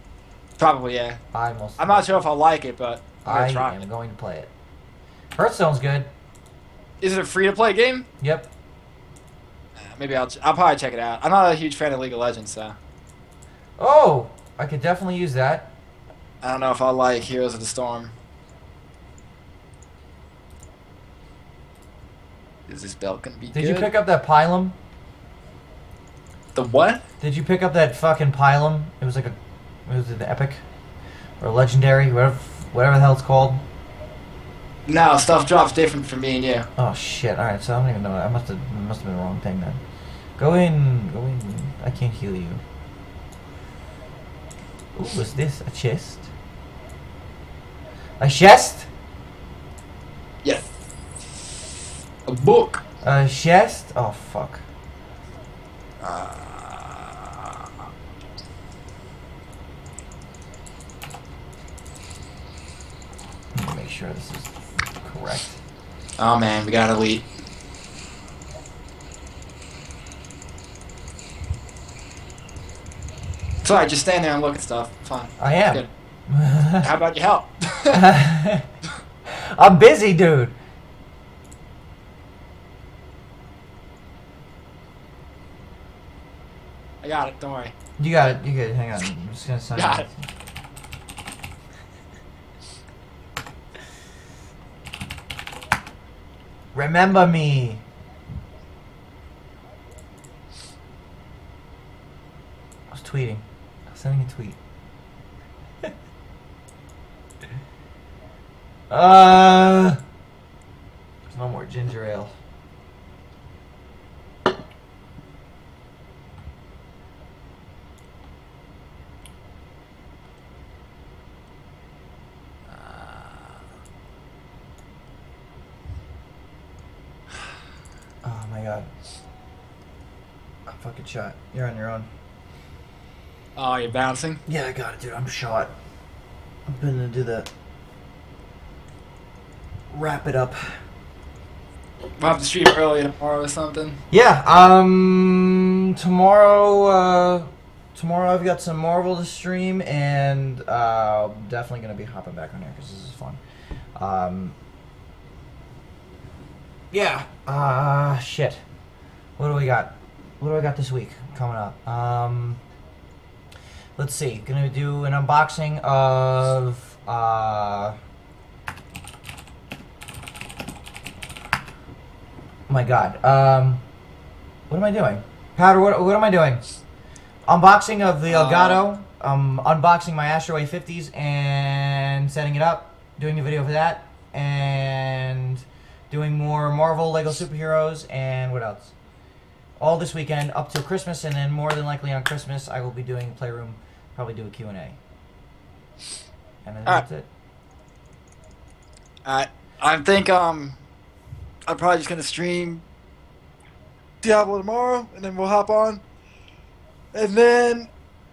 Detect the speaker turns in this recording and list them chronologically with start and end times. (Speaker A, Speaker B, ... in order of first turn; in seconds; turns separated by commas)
Speaker A: 0.6-1.2, Speaker B: 1.3-2.3, Speaker A: 1.8-3.8, Speaker B: 3.2-4.5, Speaker B: 5.3-6.1, Speaker A: 7.0-8.1, Speaker B: 8.2-8.5, Speaker A: 9.8-12.8, Speaker B: 13.8-15.7, Speaker A: 16.4-18.1, Speaker A: 22.7-23.9, Speaker B: 23.5-24.7, Speaker A: 26.5-27.0, Speaker B: 27.2-30.6, Speaker B: 31.4-33.6, Speaker A: 34.9-36.7, Speaker B: 36.8-39.8, Speaker B: 40.4-42.6, Speaker B: 44.9-46.3, Speaker B: 48.2-48.9, Speaker A: 50.4-50.7, Speaker A: 52.3-52.8, Speaker B: 53.0-54.6, Speaker A: 56.0-57.5, Speaker B: 63.5-65.6, Speaker A: 66.2-67.2, Speaker A: 73.6-75.9, Speaker B: 75.4-76.9, Speaker A: 76.8-78.1, Speaker B: 77.9-78.7, Speaker B: 79.3-80.5, Speaker A: 87.0-87.7, Speaker B: 88.0-90.3, Speaker A: 89.7-90.1, Speaker B: 96.7-97.8, Speaker B: 102.9-104.6, Speaker B: 108.9-110.0, Speaker B: 111.3-112.3, Speaker A: 122.7-123.6, Speaker B: 128.2-128.9, Speaker B: 130.7-132.1, Speaker A: 133.6-134.4, Speaker B: 134.5-135.7, Speaker B: 136.7-137.5, Speaker B: 139.9-140.8, Speaker A: 142.2-144.0, Speaker B: 144.1-153.4, Speaker B: 153.9-154.6, Speaker B: 156.9-158.6, Speaker B: 159.4-162.6, Speaker B: 164.0-167.9, Speaker B: 172.7-173.8, Speaker B: 174.7-176.6, Speaker B: 177.4-188.9, Speaker A: 178.3-178.8, Speaker B: 189.8-195.0, Speaker B: 196.6-197.3, Speaker A: 199.2-200.8, Speaker A: 201.7-202.8, Speaker A: 204.2-206.0, Speaker A: 207.1-207.9